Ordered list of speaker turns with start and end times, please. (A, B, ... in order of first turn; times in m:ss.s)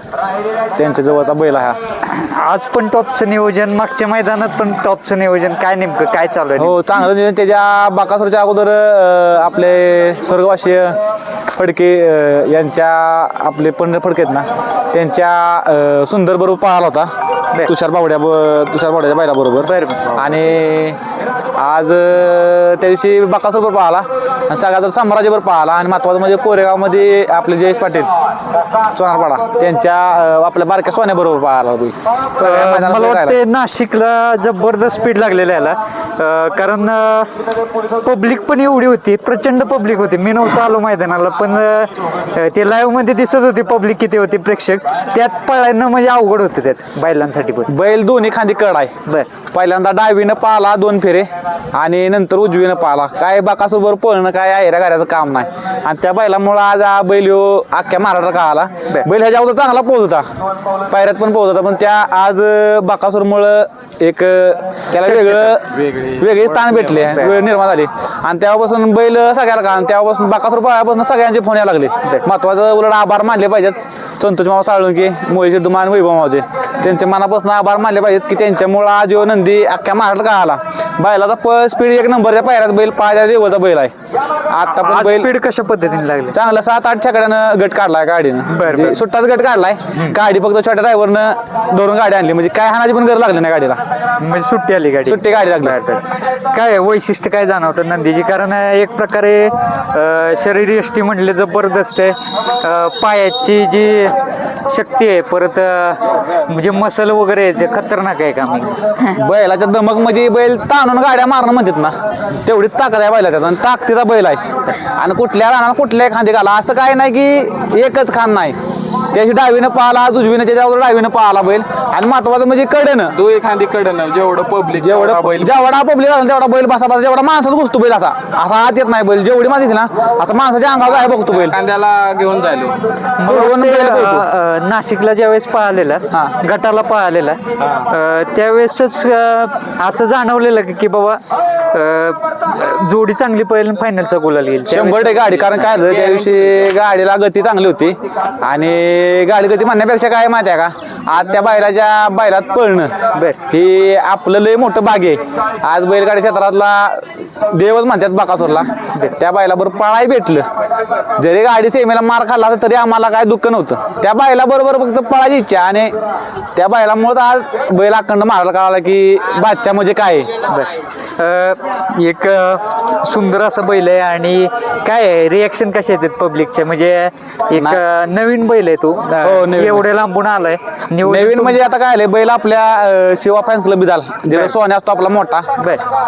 0:00.8-0:01.8 A
0:02.0-0:06.8 B
0:06.6-0:11.0 A
0:11.5-0:17.1 A
0:17.7-0:21.0 A
0:19.6-0:20.2 B
0:21.6-0:28.1 A
0:29.0-0:33.4 A
0:32.4-0:37.3 B
0:37.9-0:47.7 B
0:47.7-0:48.9 A
0:49.5-1:00.3 A
1:00.9-1:23.9 A
1:05.0-1:05.6 B
1:05.7-1:07.1 C
1:24.5-1:25.3 A
1:24.8-1:26.4 B
1:26.3-1:33.8 A
1:28.5-1:29.0 B
1:34.2-1:44.2 B
1:35.0-1:35.8 A
1:44.7-1:49.2 B
1:49.1-1:58.6 A
1:59.1-2:03.1 A
2:03.1-2:05.6 C
2:04.7-2:11.6 A
2:11.1-2:12.8 C
2:13.2-2:25.6 B
2:13.2-2:14.3 A
2:24.7-2:32.9 A
2:33.1-2:33.4 B
2:33.5-2:40.5 A
2:41.2-2:45.9 A
2:46.6-2:50.3 A
2:50.5-3:01.6 B
2:57.6-2:57.8 A
2:59.1-2:59.9 A
3:01.0-3:05.5 A
3:04.3-3:04.6 B
3:05.6-3:05.8 B